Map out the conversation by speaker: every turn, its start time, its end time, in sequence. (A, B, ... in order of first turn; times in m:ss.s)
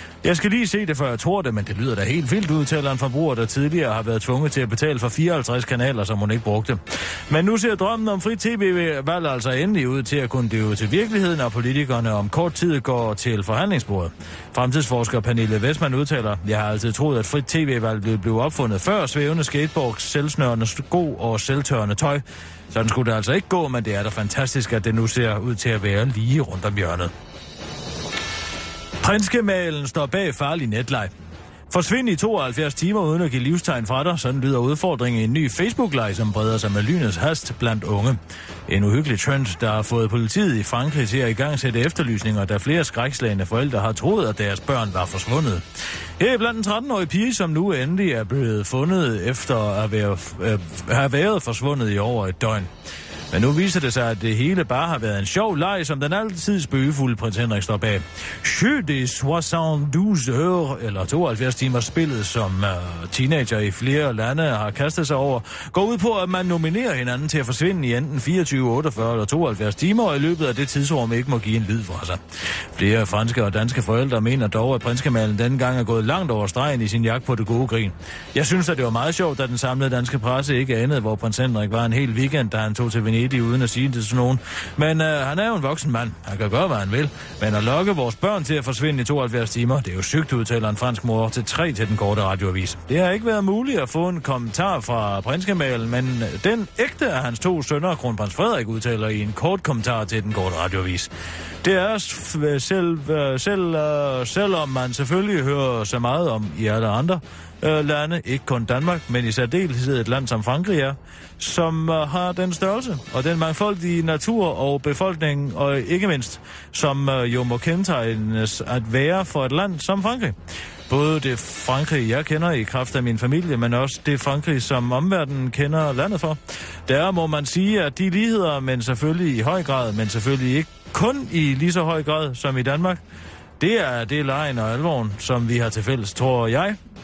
0:00.2-0:27.1 A
0:29.0-0:31.1 A
0:31.7-0:45.6 A
0:46.2-0:52.7 A
0:53.3-1:12.2 A
1:12.7-1:41.1 A
1:41.6-2:00.4 A
2:00.9-2:13.0 A
2:13.6-2:16.8 A